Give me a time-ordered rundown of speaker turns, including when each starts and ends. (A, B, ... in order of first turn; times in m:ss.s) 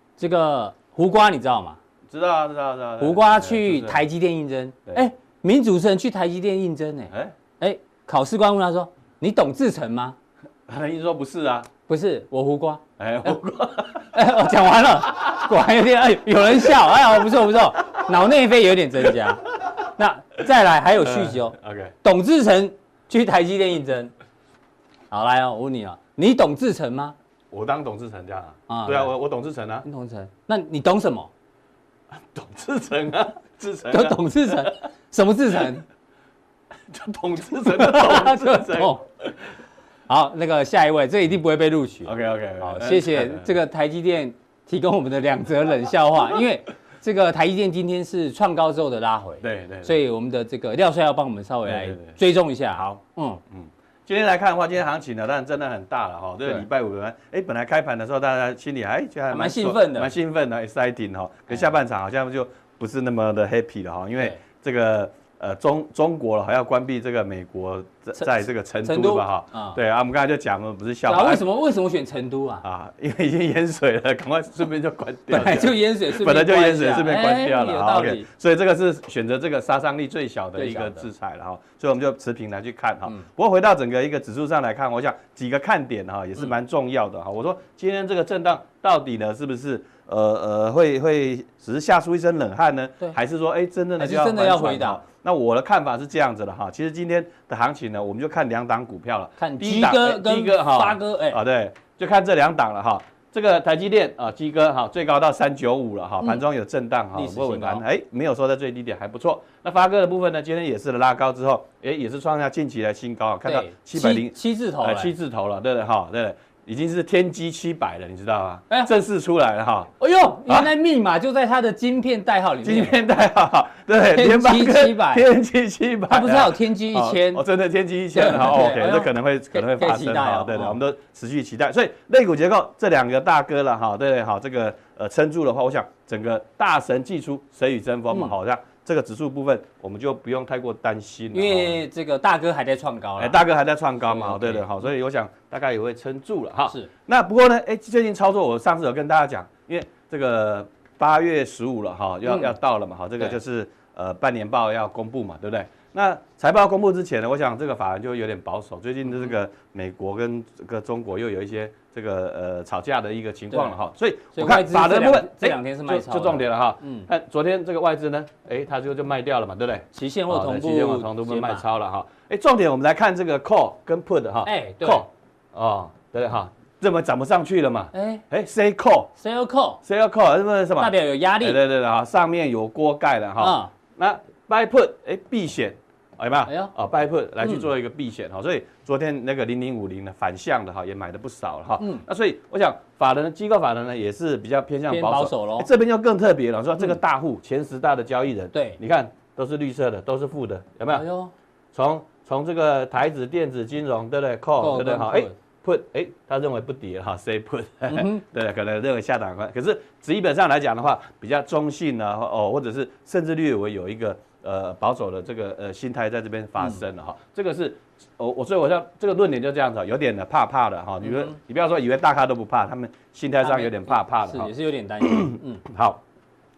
0:00.2-0:01.8 A
0:02.1-0:04.0 B
0:03.0-0:10.2 A
0:10.7-0:11.7 B
0:11.9-0:13.3 A
0:13.0-0:14.1 B
0:14.0-0:24.1 A
0:21.0-0:21.9 B
0:25.1-0:27.2 A
0:27.5-0:29.8 B
0:28.7-0:29.1 A
0:29.8-0:31.3 A
0:32.3-0:34.8 B
0:33.9-0:35.8 A
0:36.9-0:39.3 B
0:37.7-0:39.0 A
0:40.1-0:53.4 A
0:42.0-0:43.5 B
0:49.4-0:50.0 B
0:51.6-0:52.2 B
0:52.7-1:11.4 B
0:59.3-1:00.1 A
1:08.2-1:09.8 A
1:11.0-1:12.6 A
1:12.6-1:59.9 B
1:15.3-1:18.3 A
1:20.6-1:21.1 A
1:34.0-1:35.0 A
1:39.4-1:41.4 A
1:47.1-1:47.8 A
1:53.4-1:55.1 A
2:00.0-2:03.0 A
2:02.6-2:21.8 B
2:04.1-2:05.2 A
2:06.1-2:07.4 A
2:08.1-2:10.8 A
2:21.3-2:23.4 A
2:23.2-2:59.1 B
2:24.0-2:24.6 A
2:32.2-2:32.5 A
2:39.1-2:39.3 A
2:43.5-2:43.8 A
2:44.3-2:47.1 A
2:49.9-2:51.6 A
2:54.4-2:55.0 A
2:57.9-2:58.2 A
2:59.2-2:59.8 A
2:59.8-3:21.1 B
3:00.8-3:01.6 A
3:03.4-3:03.7 A
3:06.4-3:06.7 A
3:11.8-3:12.0 A
3:14.9-3:15.7 A
3:18.5-3:18.8 A
3:20.9-3:21.3 A
3:21.7-3:44.5 B
3:24.6-3:25.3 A
3:27.9-3:28.2 A
3:41.0-3:41.4 A
3:43.4-3:45.6 A
3:45.0-3:46.0 B